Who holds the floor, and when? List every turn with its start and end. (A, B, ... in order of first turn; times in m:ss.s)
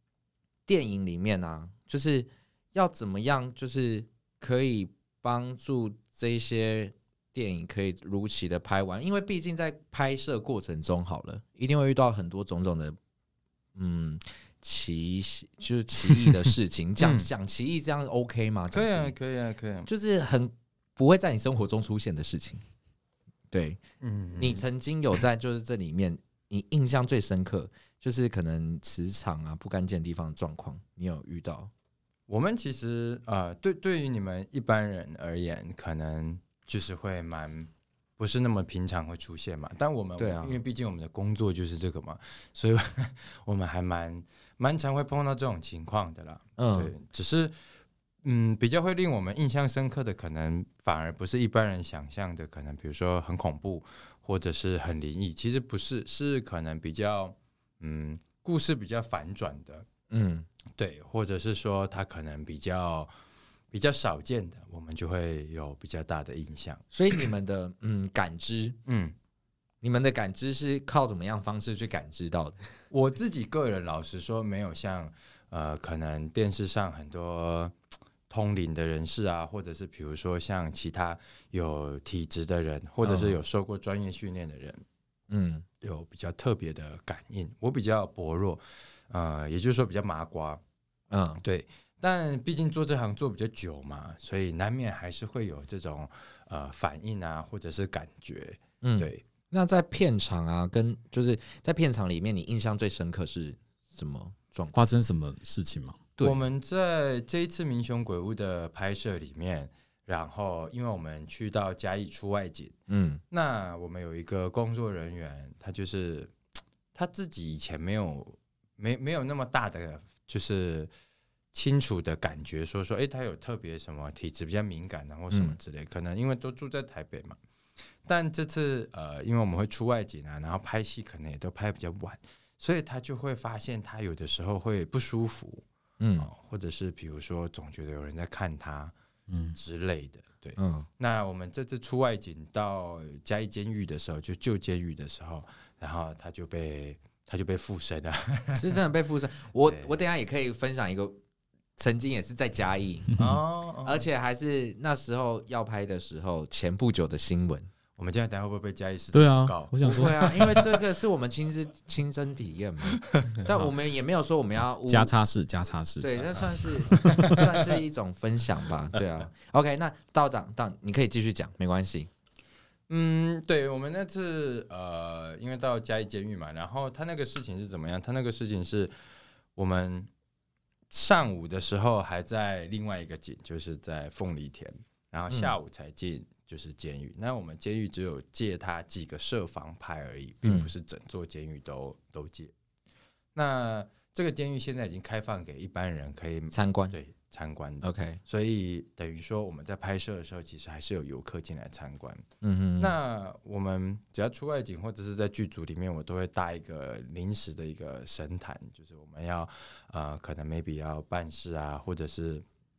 0:00.7-0:13.0 A
0:13.8-0:19.2 A
0:17.0-0:17.3 B
0:18.7-0:19.9 B
0:19.9-0:22.6 A
0:23.5-0:23.8 A
0:24.0-0:24.6 B
0:24.4-0:31.7 A
0:32.3-0:47.6 B
0:40.2-0:40.6 A
0:46.6-0:46.9 A
0:48.2-0:59.9 B
1:00.1-1:00.5 A
1:00.8-1:03.1 B
1:03.7-1:06.8 B
1:06.9-1:08.8 A
1:08.9-1:09.2 B
1:09.8-1:12.6 A
1:12.9-1:17.7 B
1:18.3-1:24.8 B
1:23.0-1:23.4 A
1:25.3-1:25.6 A
1:25.8-1:30.6 B
1:31.1-1:31.4 A
1:31.4-1:39.2 B
1:38.8-1:44.9 A
1:44.7-1:46.0 C
1:46.2-1:52.8 B
1:52.9-1:53.2 A
1:53.3-1:56.3 B
1:57.0-2:00.9 B
2:01.5-2:07.4 B
2:05.3-2:05.6 A
2:08.0-2:15.6 B
2:16.0-2:16.3 A
2:16.2-2:18.9 B
2:19.3-2:19.6 C
2:19.6-2:28.8 B
2:20.6-2:20.9 A
2:28.6-2:31.2 A
2:29.7-2:29.9 B
2:31.8-2:33.2 A
2:33.2-2:34.1 B
2:33.8-2:37.7 A
2:38.0-2:40.8 B
2:39.1-2:40.6 C
2:39.8-2:45.1 A
2:43.0-2:43.5 B
2:43.5-2:43.7 C
2:44.9-2:47.4 C
2:46.0-2:52.1 A
2:47.1-2:47.4 B
2:52.9-2:58.9 B
2:59.6-3:00.1 B
3:00.9-3:12.5 B
3:05.3-3:05.6 A
3:10.4-3:10.7 A
3:13.4-3:22.2 B
3:16.5-3:17.0 A
3:17.8-3:18.2 A
3:22.4-3:23.0 A
3:22.8-3:32.4 B